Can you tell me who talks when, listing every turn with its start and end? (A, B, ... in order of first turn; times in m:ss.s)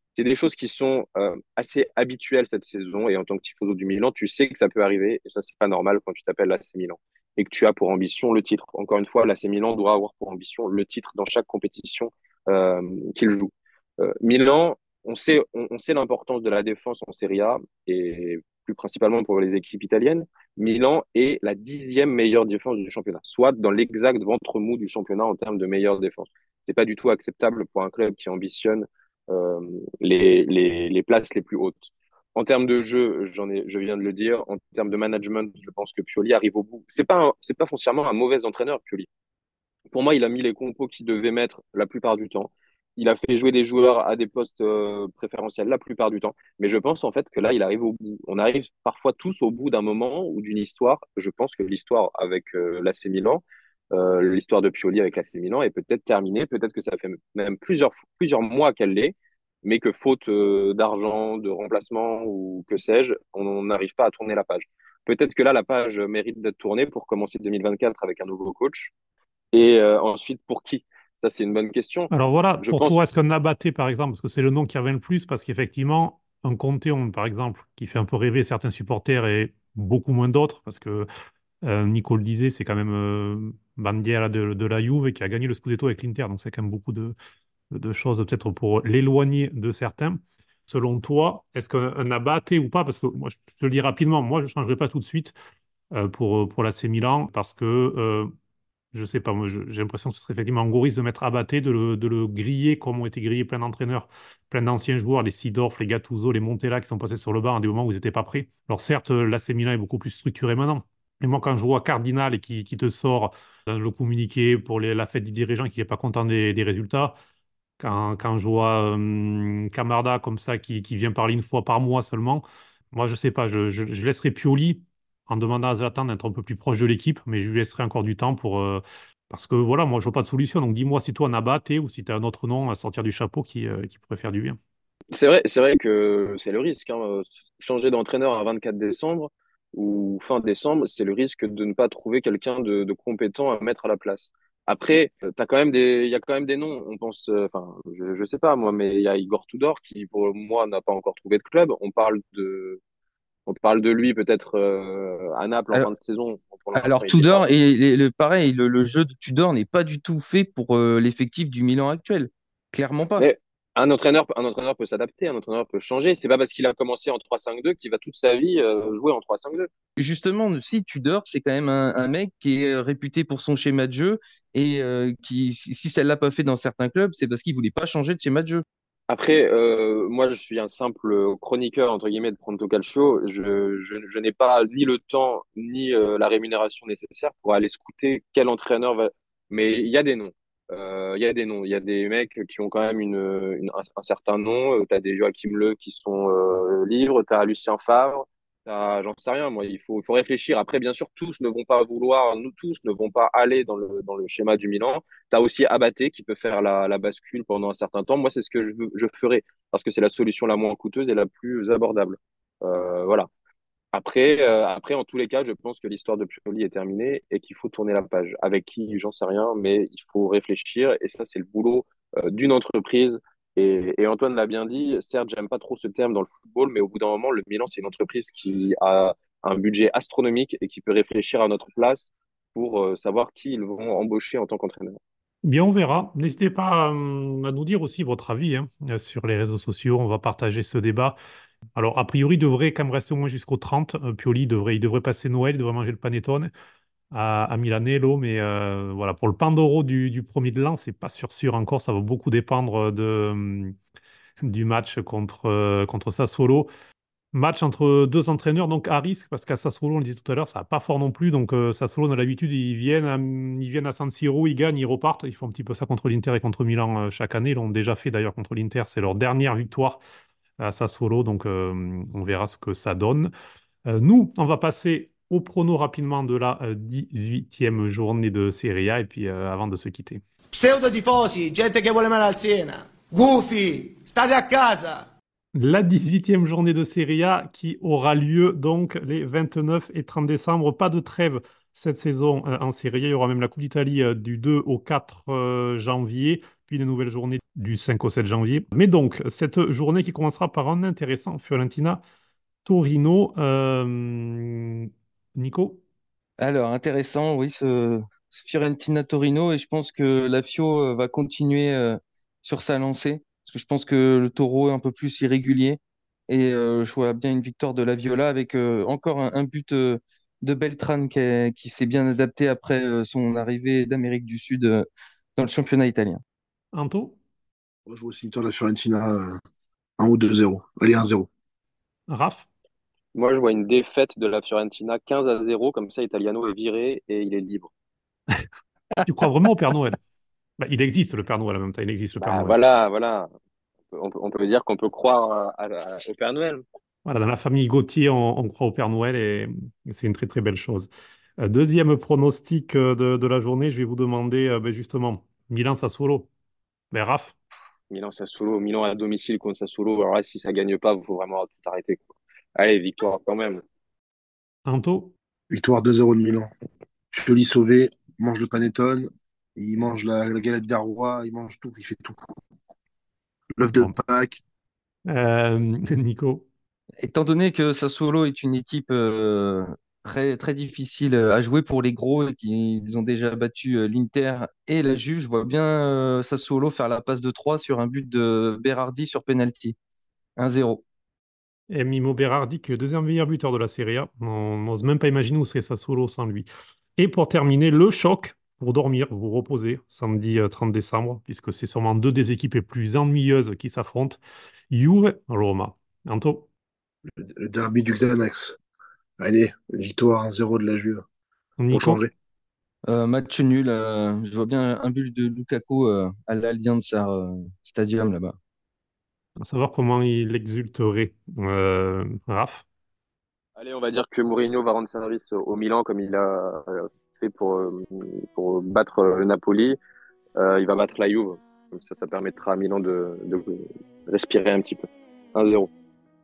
0:00.1-0:39.1 A
0:39.9-1:08.9 A
1:09.5-1:12.1 A
1:12.1-1:21.1 B
1:12.6-1:13.0 A
1:21.6-1:27.1 B
1:27.7-1:35.3 B
1:35.9-1:38.3 B
1:38.9-1:57.1 B
1:57.8-2:14.6 B
2:15.1-2:32.8 A
2:33.4-2:37.4 A
2:36.7-2:43.3 C
2:43.2-2:49.7 A
2:50.0-2:58.6 C
2:59.1-3:33.3 A
3:33.9-3:55.0 A
3:55.4-4:01.2 B
4:01.8-4:06.5 B
4:07.1-4:13.7 B
4:14.4-4:16.7 B
4:17.3-4:30.0 B
4:30.6-4:33.3 B
4:33.9-4:40.2 B
4:40.5-4:45.0 D
4:45.5-5:02.0 B
5:02.6-5:05.8 B
5:06.4-5:26.2 C
5:26.7-5:27.2 B
5:27.8-5:29.4 E
5:30.0-5:31.3 E
5:32.1-5:32.5 B
5:33.1-5:37.7 A
5:39.0-5:40.0 B
5:40.6-5:42.6 B
5:42.2-5:43.3 A
5:43.9-5:46.6 A
5:47.0-5:56.3 B
5:56.9-5:57.4 B
5:57.9-6:03.6 A
6:04.6-6:05.1 B
6:05.5-6:06.5 E
6:07.1-6:12.2 E
6:13.6-6:14.4 E
6:15.1-6:16.4 B
6:17.0-6:29.7 C
6:30.4-6:30.8 C
6:31.7-6:36.4 B
6:37.0-6:44.2 B
6:44.7-6:46.5 B
6:47.2-6:48.6 E
6:49.2-6:51.0 E
6:51.6-6:52.0 B
6:51.7-6:52.1 E
6:52.9-6:58.4 C
6:59.4-7:02.6 B
7:03.6-7:09.8 A
7:10.4-7:15.7 A